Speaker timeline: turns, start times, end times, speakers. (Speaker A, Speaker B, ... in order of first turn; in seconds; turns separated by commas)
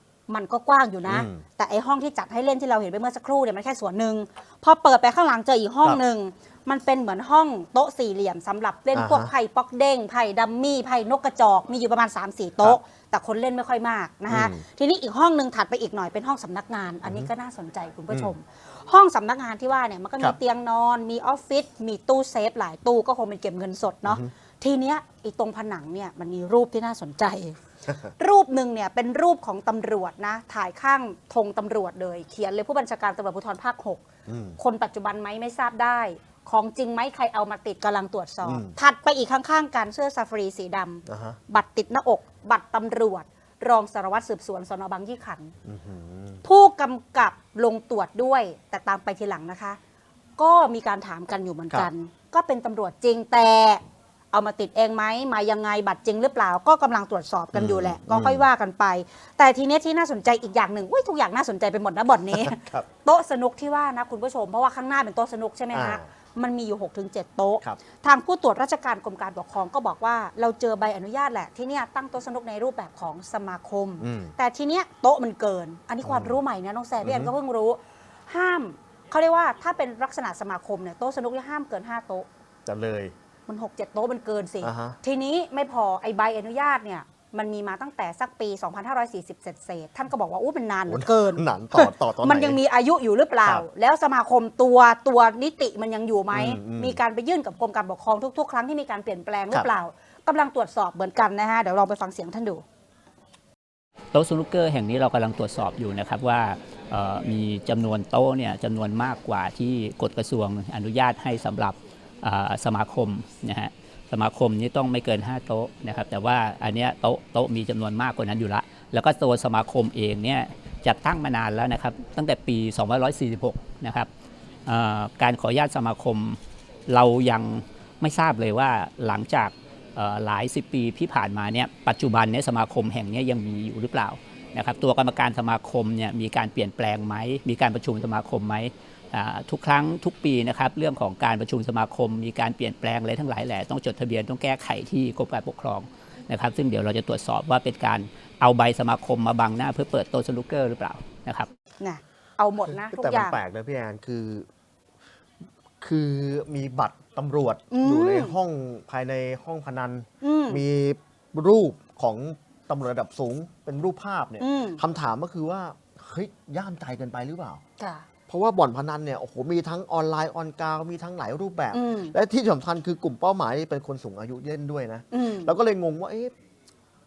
Speaker A: 0.3-27.6, Speaker B: 1.1-1.4, Speaker B: 8.9-9.3, Speaker B: 14.3-14.6, Speaker B: 24.0-24.3, Speaker A: 28.2-34.0, Speaker B: 34.2-34.6, Speaker A: 34.6-45.5, Speaker B: 38.4-38.8, Speaker B: 41.0-41.4, Speaker B: 45.6-46.4, Speaker A: 46.4-49.8, Speaker A: 50.4-53.8, Speaker A: 54.3-82.2, Speaker B: 57.5-58.5, Speaker B: 62.3-62.9, Speaker B: 65.7-66.1, Speaker B: 74.0-74.3, Speaker B: 76.0-76.4, Speaker B: 77.0-77.3, Speaker B: 82.7-83.1, Speaker A: 83.5-102.6, Speaker B: 84.6-85.0, Speaker B: 90.8-92.6, Speaker B: 96.3-97.0, Speaker C: 104.1-124.1, Speaker C: 124.7-151.5, Speaker A: 151.8-153.4, Speaker B: 152.7-154.5, Speaker B: 155.8-167.6, Speaker A: 157.7-158.3, Speaker A: 160.2-160.6, Speaker A: 164.4-164.8, Speaker A: 167.8-168.1, Speaker B: 168.3-176.3, Speaker A: 171.7-172.1, Speaker A: 175.1-175.5